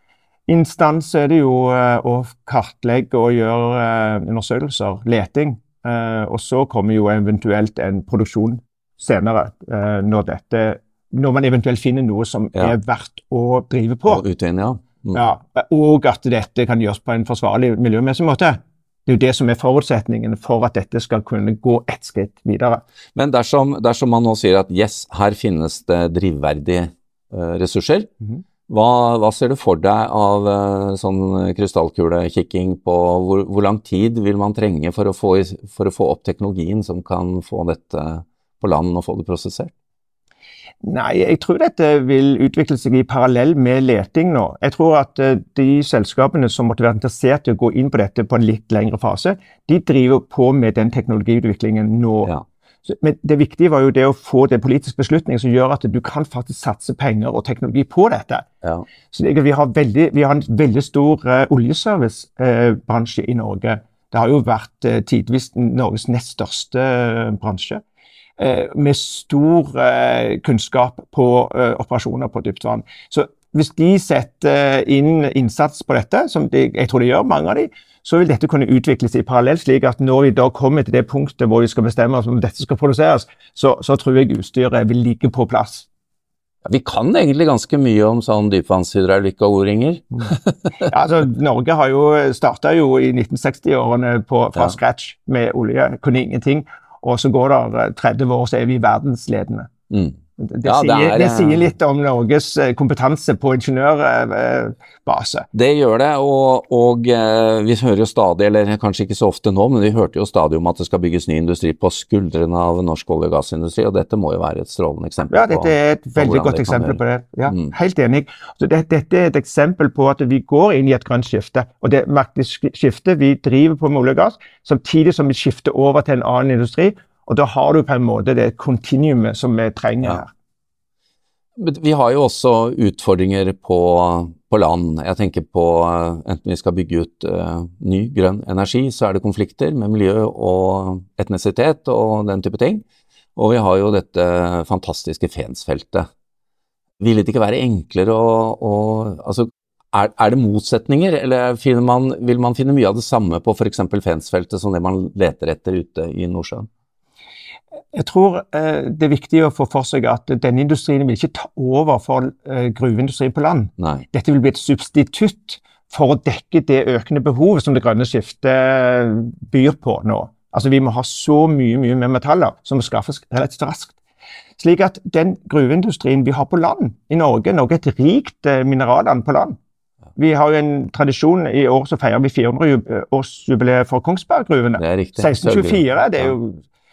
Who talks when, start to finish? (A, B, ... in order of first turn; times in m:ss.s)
0:00.5-0:14.2 A
0:14.1-0:15.2 B
0:15.1-0:22.8 A
0:23.1-0:28.1 B
0:28.7-0:39.7 B
0:40.8-0:52.3 A
0:52.8-0:58.4 A
0:59.1-1:07.8 A
1:08.4-1:25.9 A
1:26.6-1:30.8 B
1:30.8-1:39.7 A
1:39.9-1:41.7 B
1:40.4-1:45.5 A
1:45.5-1:57.7 B
1:55.3-2:10.3 A
2:11.6-2:22.8 B
2:23.4-2:26.1 B
2:27.0-2:36.7 B
2:37.9-2:54.0 A
2:43.8-2:44.0 B
2:54.6-2:59.6 A
3:00.2-3:06.6 A
3:04.8-3:06.3 B